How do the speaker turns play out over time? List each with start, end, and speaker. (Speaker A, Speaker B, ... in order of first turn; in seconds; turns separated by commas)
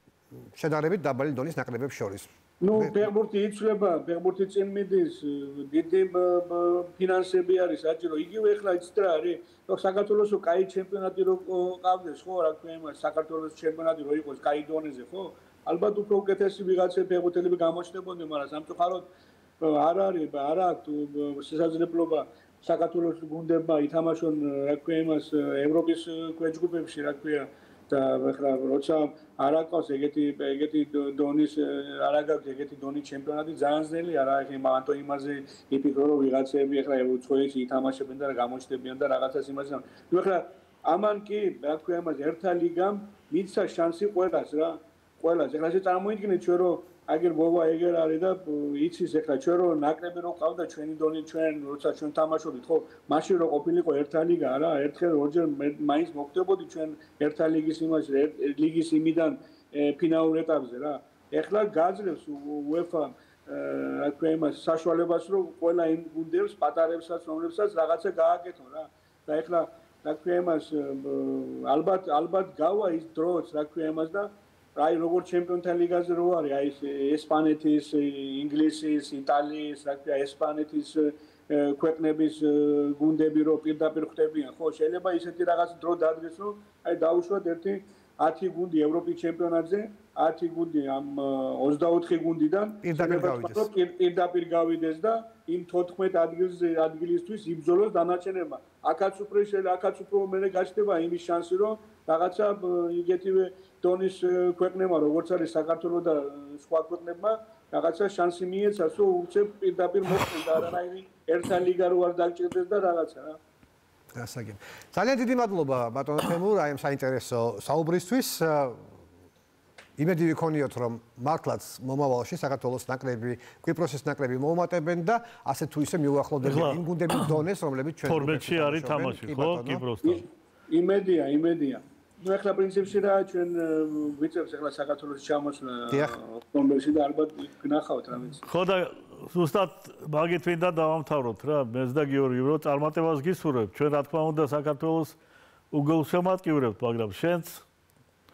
Speaker A: 0.5-3.1, Speaker B: 2.6-19.1, Speaker B: 19.6-113.4, Speaker A: 92.8-93.7, Speaker A: 114.1-118.8, Speaker A: 120.0-129.8, Speaker C: 126.4-127.4, Speaker C: 128.0-130.2, Speaker B: 130.0-138.4, Speaker A: 135.9-136.2, Speaker C: 138.4-145.2, Speaker C: 145.7-147.6